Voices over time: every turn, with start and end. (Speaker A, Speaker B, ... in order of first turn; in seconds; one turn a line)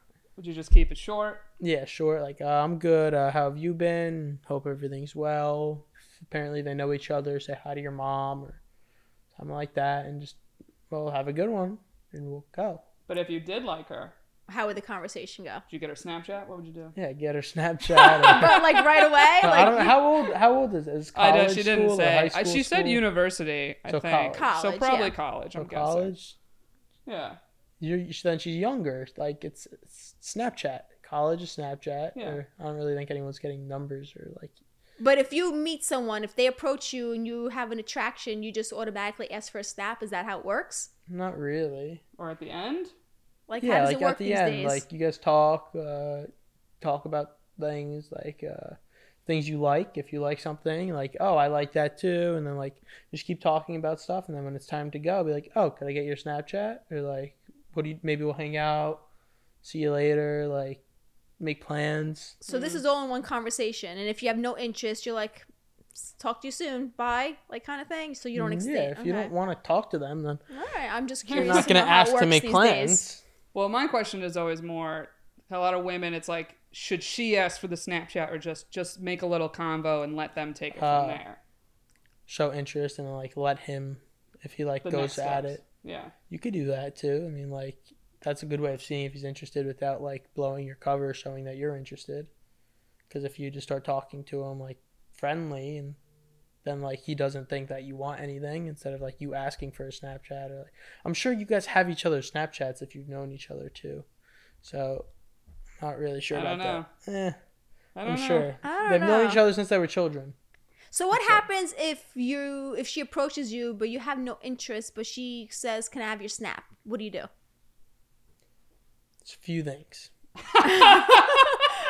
Speaker A: 0.4-1.4
Speaker B: 1.6-8.6
Speaker B: 9.3-12.8
Speaker A: 13.1-14.1
Speaker C: 14.5-15.6
Speaker A: 15.7-16.9
Speaker B: 16.9-18.7
Speaker C: 18.2-19.9
Speaker A: 18.3-18.8
Speaker B: 19.4-23.0
Speaker A: 21.1-26.1
Speaker B: 23.9-24.5
Speaker C: 24.3-25.2
Speaker B: 25.5-26.4
Speaker A: 27.1-27.4
Speaker B: 27.8-34.5
Speaker A: 32.1-32.4
Speaker C: 35.0-40.9
Speaker B: 41.1-42.0
Speaker A: 42.2-42.9
Speaker C: 43.5-44.8
Speaker B: 43.6-46.3
Speaker B: 46.8-59.1
Speaker B: 59.6-60.8
Speaker B: 61.4-62.4
Speaker A: 62.5-62.8
Speaker C: 62.5-69.3
Speaker B: 68.3-70.4
Speaker C: 70.5-73.0
Speaker A: 71.3-71.7
Speaker B: 71.3-73.2
Speaker A: 73.5-81.4
Speaker B: 80.7-81.2
Speaker B: 82.3-85.6
Speaker A: 84.8-86.1
Speaker B: 86.3-92.3
Speaker B: 93.1-96.0
Speaker B: 96.6-104.0
Speaker B: 104.6-105.1
Speaker B: 105.8-107.4
Speaker A: 106.3-106.9
Speaker A: 108.0-108.5
Speaker B: 108.0-110.3
Speaker C: 108.6-109.4
Speaker C: 110.9-117.3
Speaker B: 111.1-111.4
Speaker B: 119.2-120.1
Speaker A: 120.5-121.6
Speaker C: 120.6-121.7